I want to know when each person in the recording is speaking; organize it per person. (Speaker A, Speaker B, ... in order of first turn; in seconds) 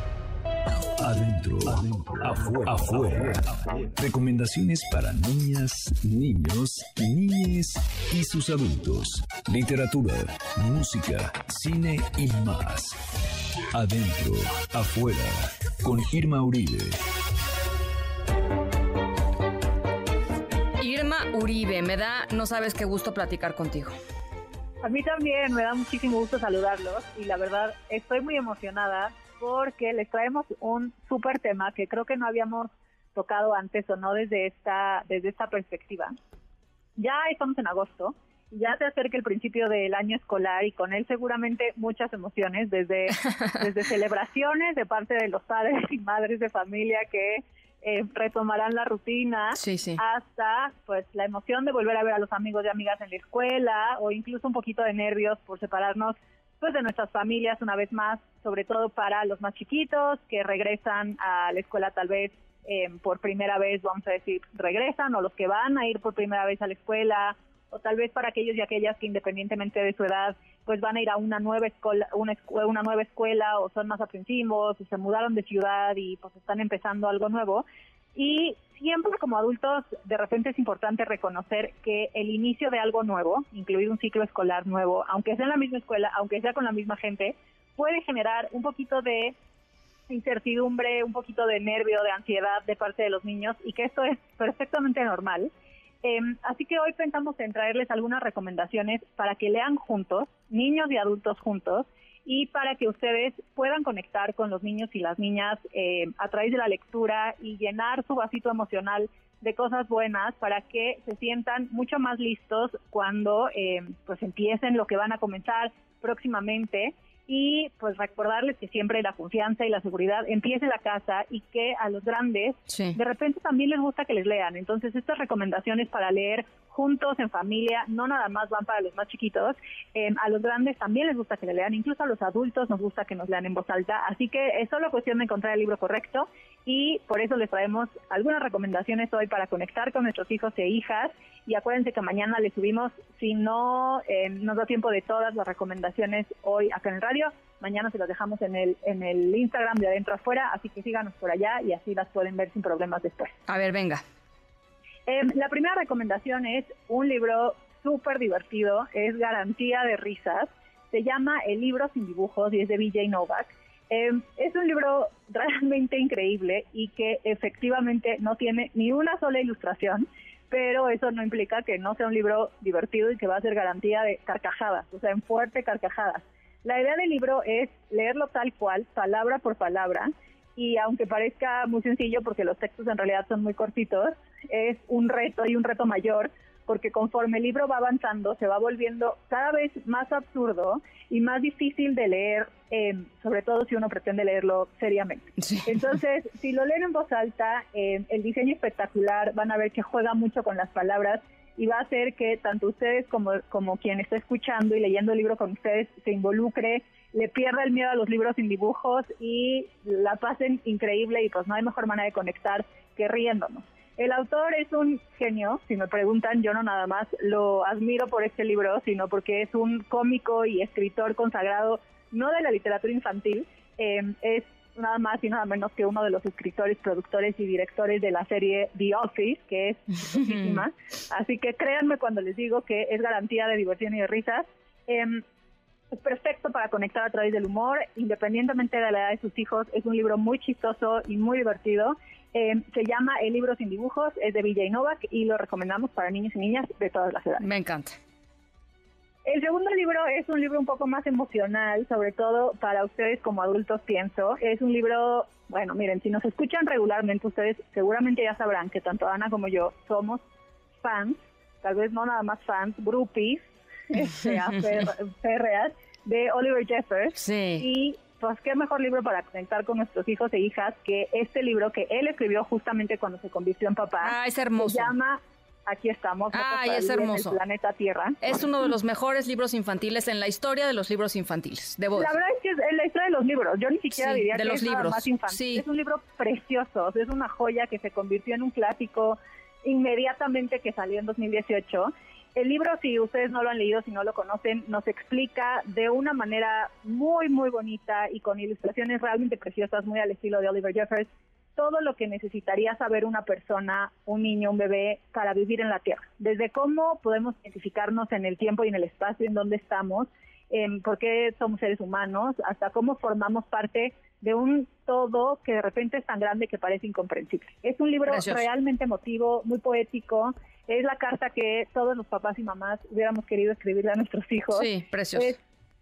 Speaker A: 1.0-12.9, 13.7-17.0
Speaker B: 20.8-23.9, 49.5-50.0, 122.7-123.0, 153.5-154.0, 247.4-247.9, 267.1-267.6, 274.0-274.9, 276.3-277.4, 278.2-282.1, 283.9-285.6, 318.1-318.4, 324.5-325.3
Speaker C: 24.8-36.1, 37.0-77.6, 78.1-89.3, 90.1-95.5, 96.0-153.3, 155.1-235.2, 235.9-247.5, 249.2-260.2, 260.8-278.2, 281.9-325.4